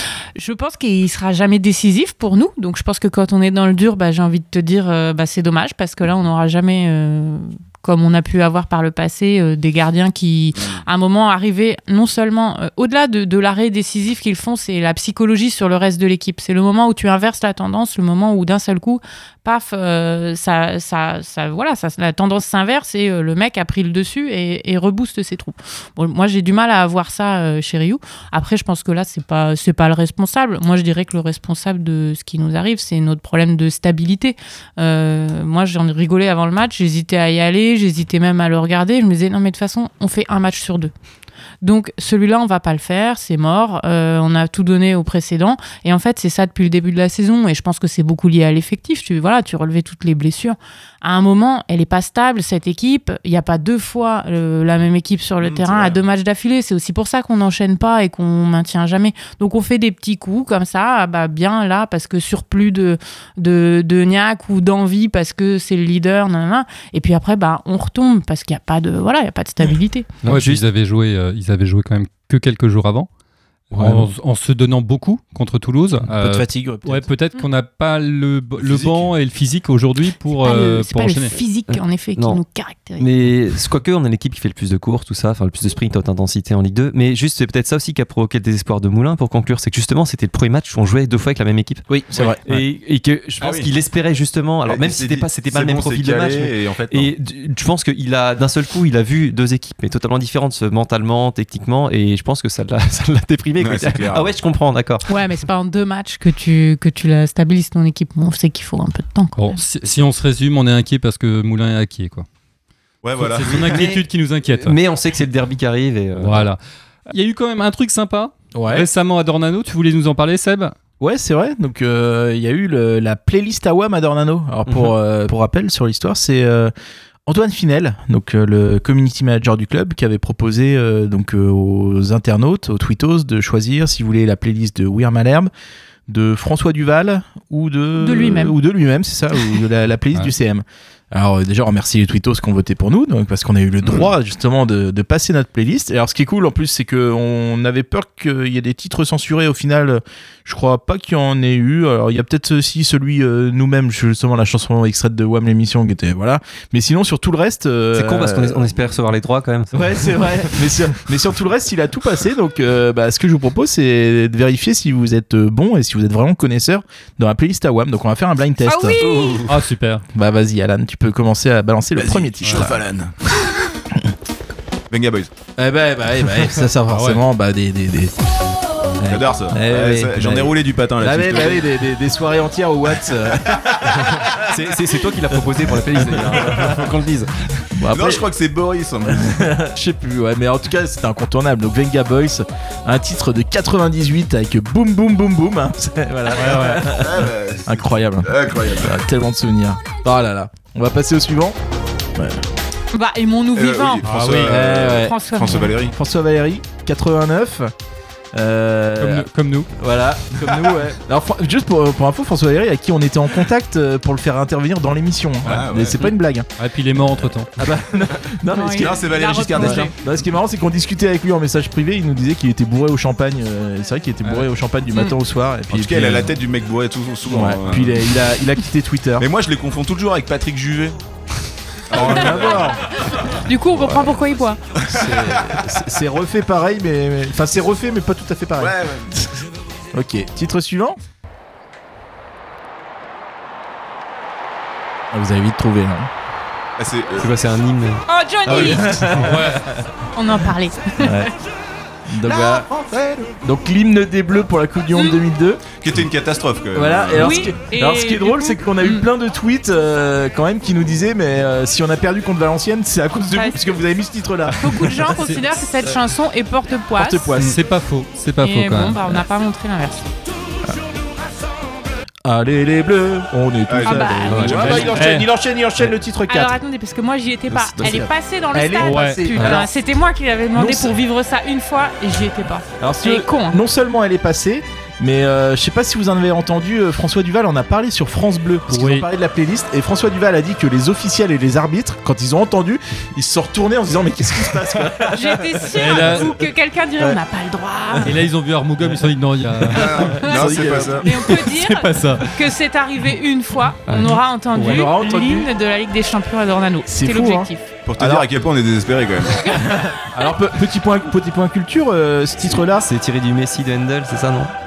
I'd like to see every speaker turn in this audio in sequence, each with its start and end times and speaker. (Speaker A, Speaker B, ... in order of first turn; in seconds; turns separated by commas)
Speaker A: 0.3-40.9, Speaker B: 10.6-10.8, Speaker A: 41.6-70.1, Speaker B: 55.4-56.0, Speaker C: 70.2-70.6, Speaker D: 70.2-73.1, Speaker E: 73.7-74.1, Speaker D: 73.7-81.4, Speaker E: 76.1-77.1, Speaker B: 78.6-79.1, Speaker A: 80.4-83.1, Speaker C: 81.7-82.4, Speaker C: 83.0-91.8, Speaker E: 91.9-92.4, Speaker C: 92.4-105.1, Speaker B: 93.4-93.7, Speaker B: 94.7-97.1, Speaker B: 103.6-104.3, Speaker A: 105.1-109.6, Speaker D: 109.3-112.2, Speaker B: 113.0-113.9, Speaker D: 113.2-114.8, Speaker C: 113.5-116.5, Speaker D: 116.2-120.7, Speaker E: 118.5-118.9, Speaker E: 121.0-126.7, Speaker C: 124.7-124.9, Speaker E: 127.3-135.5, Speaker E: 136.1-158.7, Speaker A: 138.0-138.6, Speaker C: 157.9-160.0, Speaker E: 159.7-169.0, Speaker A: 168.6-169.4, Speaker B: 169.0-169.5, Speaker D: 169.5-170.0, Speaker E: 170.1-172.8, Speaker B: 171.9-173.1, Speaker B: 174.9-175.3, Speaker E: 175.6-178.1, Speaker D: 176.9-177.2, Speaker E: 179.0-184.5, Speaker B: 179.1-181.7, Speaker C: 184.3-187.3, Speaker E: 186.0-186.8, Speaker E: 187.8-188.2, Speaker B: 187.9-189.5, Speaker E: 189.1-201.6, Speaker D: 196.3-196.9, Speaker B: 197.0-198.9, Speaker E: 202.2-202.4, Speaker A: 202.9-204.1, Speaker B: 203.5-205.9, Speaker D: 204.0-204.5, Speaker E: 204.5-205.2, Speaker A: 204.9-205.7, Speaker E: 205.8-207.7, Speaker E: 208.3-216.5, Speaker D: 209.0-209.7, Speaker B: 215.4-216.0, Speaker D: 216.6-217.5, Speaker E: 217.6-226.3, Speaker A: 218.5-219.9, Speaker B: 218.8-219.9, Speaker B: 225.7-228.0, Speaker E: 227.2-229.2, Speaker B: 229.2-231.0, Speaker B: 231.9-232.8, Speaker E: 231.9-232.8, Speaker A: 232.0-234.6, Speaker E: 233.7-234.1, Speaker E: 234.8-241.0, Speaker B: 234.9-235.2, Speaker B: 238.6-239.2, Speaker E: 245.1-246.1, Speaker B: 246.8-247.3, Speaker C: 247.2-248.0, Speaker A: 248.1-248.9, Speaker B: 248.4-249.2, Speaker E: 248.5-249.6, Speaker D: 249.1-249.7, Speaker A: 250.1-251.3, Speaker E: 251.0-251.3, Speaker E: 252.1-252.7, Speaker B: 252.7-253.3, Speaker E: 253.4-255.8, Speaker A: 254.9-255.2, Speaker B: 255.8-257.4, Speaker E: 256.7-265.0, Speaker A: 257.2-259.1, Speaker A: 263.3-263.6, Speaker A: 264.6-267.3, Speaker D: 265.2-265.4, Speaker E: 266.9-267.6, Speaker D: 267.4-269.1, Speaker A: 268.4-270.1, Speaker E: 272.2-276.6, Speaker B: 273.7-274.8, Speaker A: 273.8-275.0, Speaker C: 274.3-274.6, Speaker D: 274.5-275.3, Speaker A: 276.3-283.6, Speaker E: 277.5-279.7, Speaker D: 278.8-279.6, Speaker E: 280.5-280.9, Speaker E: 282.8-296.3, Speaker D: 288.7-289.1, Speaker A: 295.1-298.1, Speaker D: 295.7-296.3, Speaker D: 298.0-300.2, Speaker B: 299.7-301.1, Speaker E: 299.8-301.1, Speaker A: 301.0-307.7, Speaker D: 301.3-302.2, Speaker C: 303.9-304.2, Speaker E: 304.6-305.5, Speaker D: 304.6-304.8, Speaker E: 306.9-308.3, Speaker B: 307.9-309.6, Speaker A: 309.4-309.6, Speaker E: 309.9-312.9, Speaker C: 312.7-314.5